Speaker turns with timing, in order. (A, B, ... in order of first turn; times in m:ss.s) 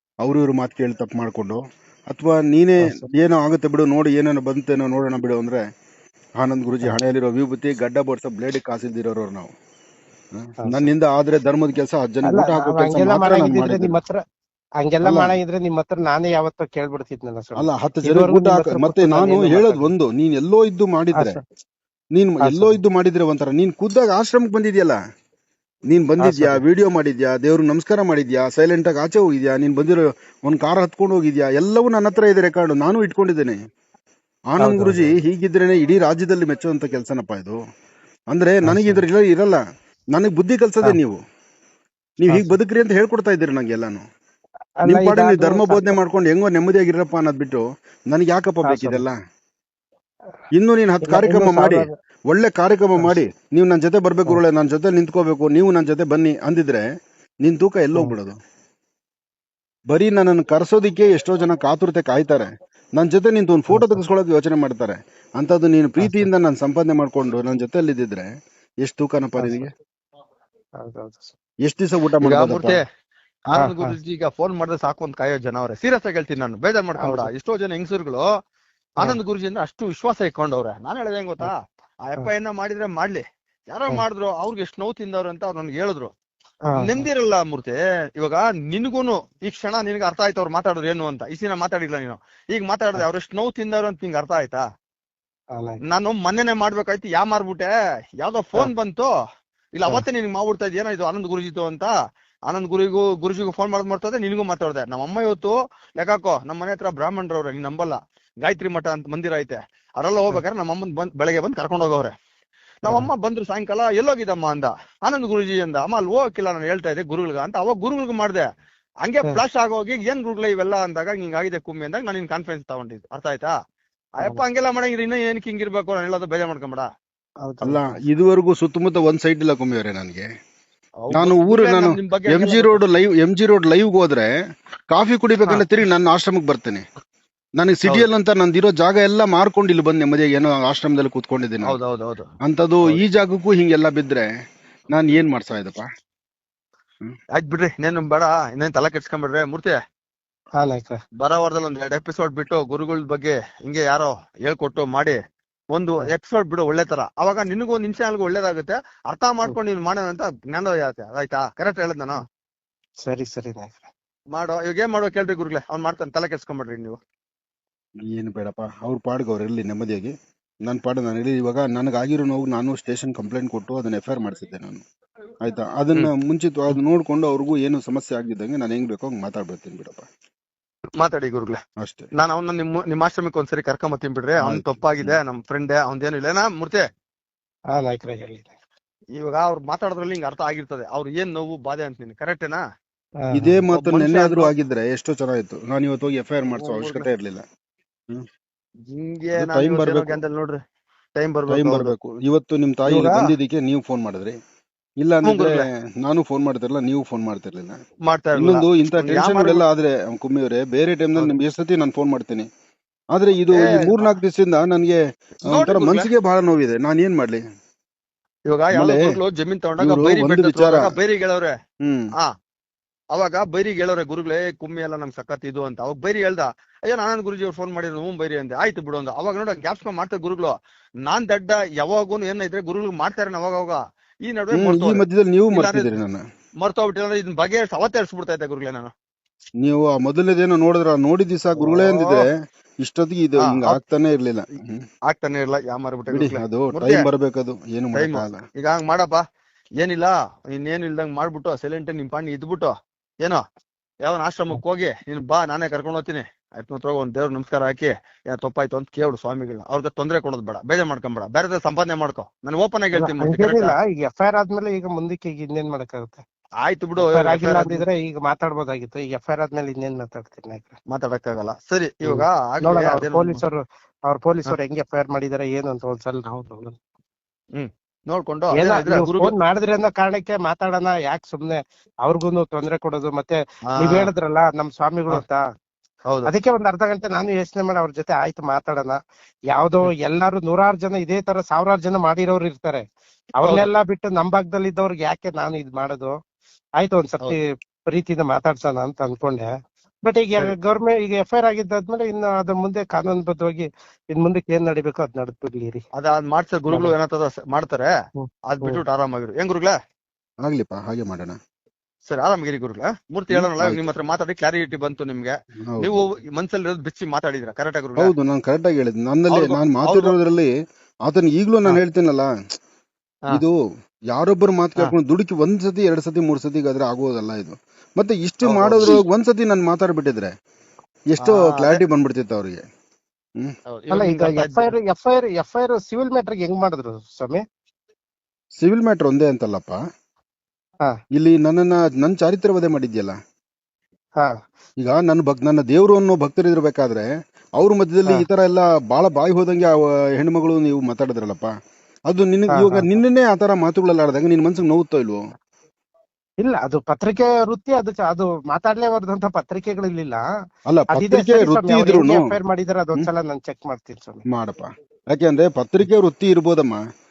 0:00.2-0:05.6 A
0:02.8-0:03.1 B
0:06.4-0:09.5 A
0:10.4-0:14.0 A
0:10.6-0:10.9 B
0:12.2-0:14.2 B
0:14.8-0:19.9 B
0:15.0-0:15.4 A
0:17.6-0:21.4 A
0:22.2-0:25.0 A
0:22.4-0:22.8 B
0:25.9-0:33.6 A
0:26.2-0:26.6 B
0:34.5-0:37.6 A
0:34.6-0:35.2 B
0:38.3-0:39.6 A
0:38.6-0:39.0 B
0:40.1-0:41.2 A
0:42.2-0:44.0 A
0:42.3-0:42.6 B
0:44.8-0:46.0 B
0:44.8-0:49.2 A
0:48.6-0:49.0 B
0:50.5-0:56.8 A
0:51.0-0:51.9 B
0:57.4-0:58.4 A
0:59.9-1:08.3 A
1:03.7-1:04.0 B
1:06.0-1:06.3 B
1:08.8-1:09.7 A
1:09.4-1:09.7 B
1:10.8-1:11.4 B
1:11.6-1:12.8 A
1:12.2-1:12.8 C
1:13.5-1:18.2 C
1:13.6-1:14.0 B
1:17.0-1:17.3 B
1:19.0-1:26.1 C
1:26.7-1:27.1 B
1:26.8-1:34.6 C
1:35.8-1:39.1 C
1:39.7-1:41.9 C
1:42.5-1:52.1 C
1:52.8-1:58.4 C
1:59.0-2:03.5 C
2:04.2-2:06.9 C
2:07.4-2:08.0 B
2:07.6-2:10.2 A
2:11.0-2:12.8 C
2:11.1-2:14.3 A
2:14.9-2:16.8 A
2:17.6-2:21.8 A
2:21.6-2:22.3 C
2:22.4-2:24.3 A
2:24.9-2:25.9 A
2:27.4-2:29.8 C
2:30.6-2:31.0 B
2:31.2-2:35.2 C
2:35.7-2:42.2 C
2:43.0-2:43.9 B
2:44.3-2:47.0 C
2:48.1-2:50.1 A
2:50.7-2:54.8 A
2:55.4-3:00.1 A
3:01.0-3:01.6 C
3:01.8-3:02.1 A
3:02.2-3:06.8 C
3:04.4-3:05.2 A
3:07.7-3:08.5 B
3:09.2-3:12.6 C
3:13.2-3:13.6 B
3:13.3-3:17.4 A
3:13.7-3:14.5 C
3:16.6-3:17.1 C
3:18.9-3:20.6 C
3:19.4-3:20.2 A
3:21.2-3:21.9 C
3:21.5-3:24.4 A
3:22.9-3:23.2 C
3:25.0-3:27.8 A
3:25.3-3:25.6 C
3:28.1-3:29.6 C
3:28.4-3:32.5 A
3:33.1-3:37.4 A
3:33.5-3:34.1 C
3:35.4-3:36.1 C
3:38.5-3:41.5 C
3:38.7-3:39.1 A
3:39.8-3:41.0 A
3:43.1-3:50.5 C
3:51.1-3:56.0 C
3:54.5-3:56.2 A
3:56.6-3:58.9 C
3:59.6-4:02.3 A
4:01.6-4:02.2 C
4:02.8-4:04.8 A
4:03.4-4:03.8 C
4:05.1-4:07.1 C
4:06.1-4:08.4 A
4:07.9-4:09.2 C
4:09.8-4:13.4 C
4:14.0-4:23.8 C
4:23.0-4:26.2 B
4:26.6-4:27.8 C
4:27.0-4:30.8 B
4:30.9-4:33.4 C
4:32.1-4:36.8 B
4:37.6-4:39.4 C
4:38.5-4:45.4 B
4:43.7-4:44.1 C
4:46.3-4:49.0 B
4:49.5-4:52.8 B
4:53.4-4:56.2 B
4:53.4-4:53.7 C
4:56.8-4:59.5 B
5:00.0-5:05.8 B
5:06.0-5:07.9 C
5:08.2-5:08.8 B
5:08.5-5:09.8 C
5:10.4-5:11.4 A
5:12.1-5:18.2 C
5:13.3-5:13.8 A
5:15.7-5:16.0 A
5:18.0-5:20.5 A
5:19.3-5:20.2 C
5:21.1-5:22.3 A
5:24.1-5:30.3 A
5:28.4-5:29.0 C
5:31.1-5:32.6 A
5:31.2-5:31.8 C
5:33.7-5:34.7 C
5:33.9-5:37.4 B
5:38.6-5:39.8 A
5:41.2-5:43.2 A
5:44.8-5:47.1 A
5:47.6-5:51.5 A
5:52.1-5:55.2 A
5:52.5-5:52.9 B
5:56.4-6:00.2 B
6:00.7-6:02.3 A
6:00.9-6:04.2 B
6:04.3-6:06.8 A